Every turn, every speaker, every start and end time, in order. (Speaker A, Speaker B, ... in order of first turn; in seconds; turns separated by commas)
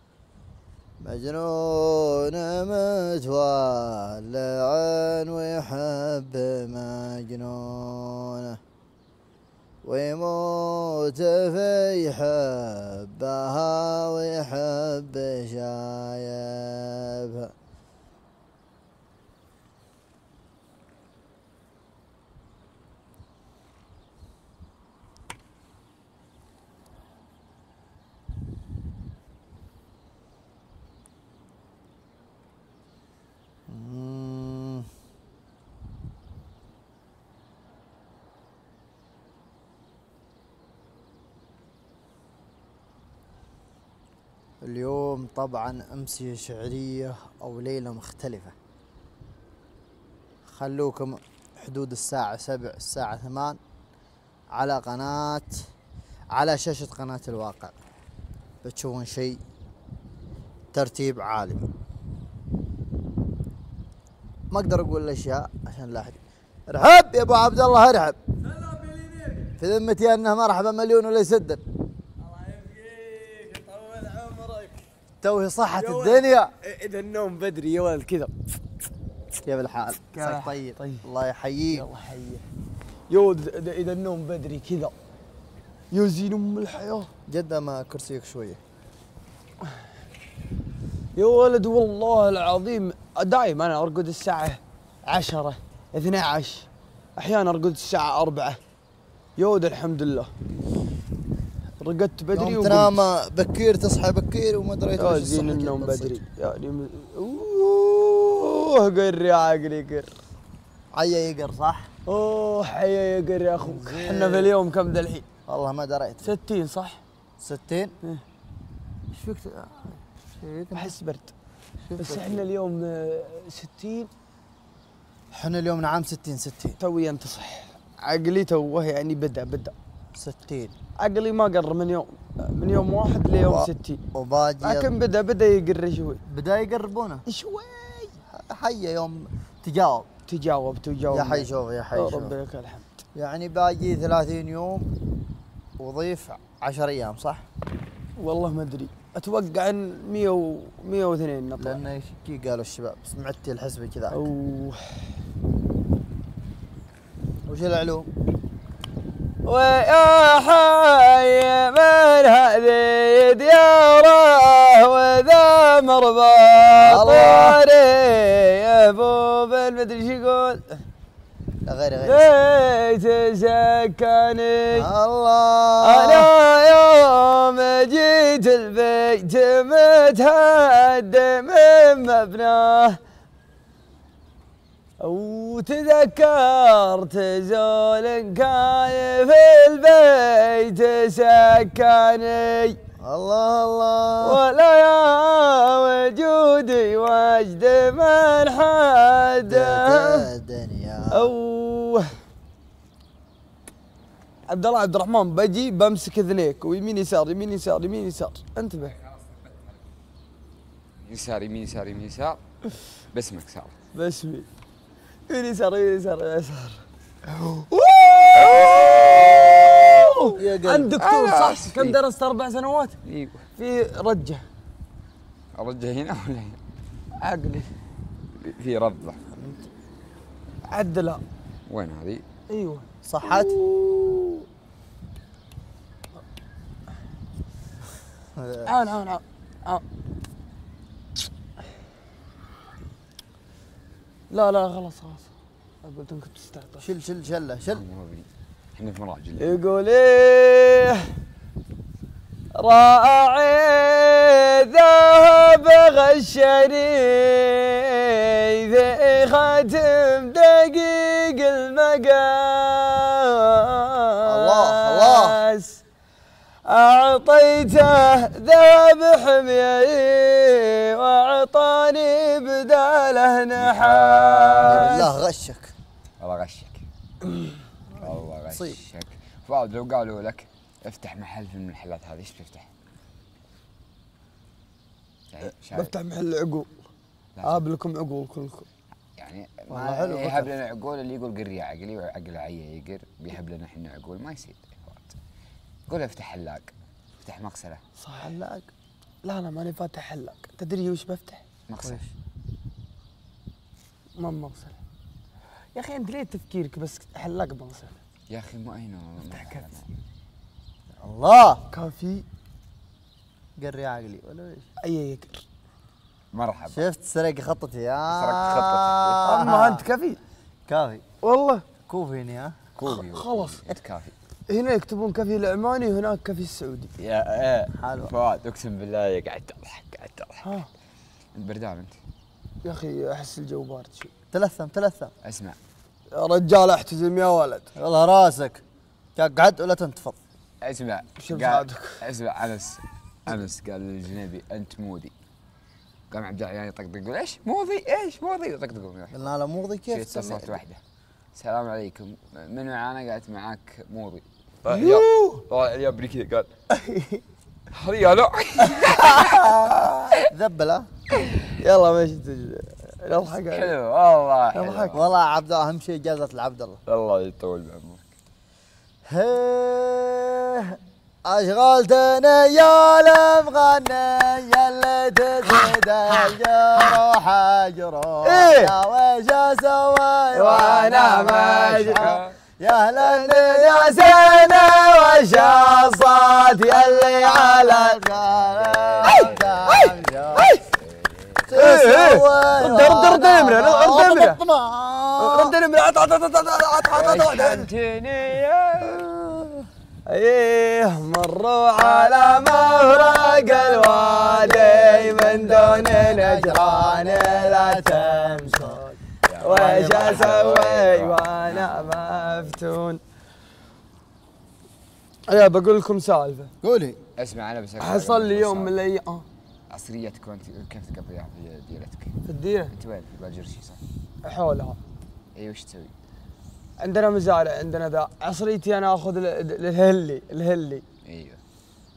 Speaker A: 1.0-8.6, Speaker A: 9.8-17.5, Speaker A: 33.7-34.9, Speaker A: 44.6-48.5, Speaker A: 50.5-53.6, Speaker A: 54.5-55.6, Speaker A: 56.3-57.8, Speaker A: 58.6-59.4, Speaker A: 60.7-61.7, Speaker A: 64.5-68.2, Speaker B: 68.7-69.4, Speaker A: 69.6-71.6, Speaker B: 72.2-74.8, Speaker A: 75.2-76.5, Speaker B: 75.7-78.3, Speaker A: 79.4-81.9, Speaker B: 80.1-81.0, Speaker B: 81.7-82.4, Speaker B: 83.1-84.9, Speaker B: 85.9-87.1, Speaker A: 87.3-88.6, Speaker B: 91.2-98.6, Speaker B: 99.4-100.3, Speaker B: 101.8-102.9, Speaker A: 102.3-106.2, Speaker B: 105.0-110.1, Speaker A: 110.9-111.9, Speaker B: 112.0-115.2, Speaker A: 113.6-114.5, Speaker A: 115.5-116.3, Speaker B: 116.2-117.0, Speaker A: 117.4-117.9, Speaker B: 119.1-119.9, Speaker A: 120.4-120.9, Speaker B: 120.7-121.3, Speaker A: 121.8-122.4, Speaker B: 122.0-124.1, Speaker A: 125.3-126.8, Speaker B: 126.8-129.7, Speaker A: 130.2-130.7, Speaker B: 131.0-134.0, Speaker A: 133.3-134.9, Speaker B: 134.6-136.2, Speaker A: 136.3-137.2, Speaker B: 137.2-138.2, Speaker A: 138.3-140.1, Speaker B: 140.3-142.9, Speaker A: 141.1-142.3, Speaker A: 143.1-144.9, Speaker A: 145.8-147.4, Speaker B: 148.2-151.8, Speaker A: 151.6-154.2, Speaker B: 154.1-155.1, Speaker A: 157.4-158.1, Speaker B: 159.4-170.8, Speaker A: 166.8-167.6, Speaker A: 171.6-172.3, Speaker B: 172.0-174.9, Speaker A: 174.7-176.3, Speaker B: 175.8-183.0, Speaker B: 185.0-192.8, Speaker A: 193.0-194.4, Speaker B: 194.2-200.2, Speaker A: 199.4-201.3, Speaker B: 201.1-202.1, Speaker B: 204.5-209.0, Speaker C: 211.0-212.4, Speaker C: 213.1-213.7, Speaker B: 213.9-214.5, Speaker B: 215.3-223.0, Speaker C: 218.4-219.6, Speaker A: 220.3-220.9, Speaker C: 221.0-222.0, Speaker C: 223.0-223.4, Speaker B: 223.6-224.4, Speaker C: 225.5-226.6, Speaker B: 227.2-227.7, Speaker C: 228.3-229.2, Speaker A: 229.3-229.7, Speaker B: 230.7-231.2, Speaker C: 231.7-232.2, Speaker B: 232.5-234.4, Speaker A: 233.0-233.7, Speaker A: 238.3-238.7, Speaker B: 238.7-239.8, Speaker B: 244.3-245.3, Speaker B: 245.8-246.8, Speaker A: 246.8-247.8, Speaker C: 247.7-249.6, Speaker B: 249.4-251.1, Speaker B: 252.6-265.8, Speaker A: 264.2-265.4, Speaker B: 266.7-275.1, Speaker C: 273.5-275.1, Speaker A: 274.7-275.7, Speaker C: 276.2-276.8, Speaker C: 278.0-282.7, Speaker A: 278.0-278.8, Speaker C: 285.3-285.9, Speaker B: 285.6-286.7, Speaker C: 287.4-287.6, Speaker B: 287.4-288.7, Speaker C: 289.1-295.2, Speaker A: 289.7-290.5, Speaker C: 295.9-297.8, Speaker B: 298.0-298.7, Speaker B: 299.2-301.4, Speaker C: 301.7-302.0, Speaker A: 301.8-302.1, Speaker B: 304.2-304.8, Speaker B: 305.7-307.9, Speaker C: 308.3-309.9, Speaker B: 309.3-309.6, Speaker A: 311.0-311.6, Speaker B: 311.7-312.2, Speaker A: 313.6-314.6, Speaker B: 314.8-315.4, Speaker C: 316.3-316.9, Speaker A: 316.7-319.8, Speaker C: 318.1-319.3, Speaker B: 319.2-320.2, Speaker A: 320.7-321.0, Speaker B: 321.2-321.6, Speaker A: 321.9-322.6, Speaker C: 322.8-324.1, Speaker B: 322.8-323.6, Speaker B: 324.5-326.9, Speaker C: 327.0-330.5, Speaker A: 327.8-328.1, Speaker B: 330.4-330.7, Speaker C: 331.3-332.0, Speaker B: 332.6-334.1, Speaker A: 334.3-335.1, Speaker C: 335.2-335.6, Speaker B: 336.1-337.7, Speaker A: 337.8-338.6, Speaker A: 339.1-340.2, Speaker C: 340.6-345.1, Speaker B: 341.2-342.0, Speaker C: 346.1-349.3, Speaker A: 349.1-350.6, Speaker C: 349.9-350.8, Speaker C: 351.3-356.5, Speaker B: 354.7-355.4, Speaker B: 356.7-357.2, Speaker C: 357.7-359.6, Speaker B: 358.8-359.8, Speaker A: 360.2-360.9, Speaker B: 361.5-363.8, Speaker C: 363.4-365.1, Speaker B: 364.5-365.0, Speaker A: 364.9-366.8, Speaker C: 366.9-368.0, Speaker A: 369.1-390.5, Speaker B: 378.2-378.7, Speaker B: 380.3-382.2, Speaker C: 380.8-382.4, Speaker B: 383.0-388.0, Speaker C: 388.1-389.9, Speaker B: 389.1-390.6, Speaker C: 390.8-391.7, Speaker A: 391.5-395.5, Speaker B: 391.5-394.4, Speaker B: 395.2-397.7, Speaker C: 397.0-398.9, Speaker A: 398.8-399.6, Speaker B: 400.1-413.0, Speaker A: 401.8-408.8, Speaker C: 409.3-412.6, Speaker A: 409.7-410.1, Speaker B: 415.3-416.5, Speaker A: 416.6-417.0, Speaker C: 417.1-418.8, Speaker B: 417.8-419.2, Speaker C: 419.7-422.1, Speaker B: 422.2-422.7, Speaker C: 422.7-423.8, Speaker B: 424.2-424.8, Speaker C: 425.3-425.9, Speaker B: 426.8-430.8, Speaker C: 431.0-431.4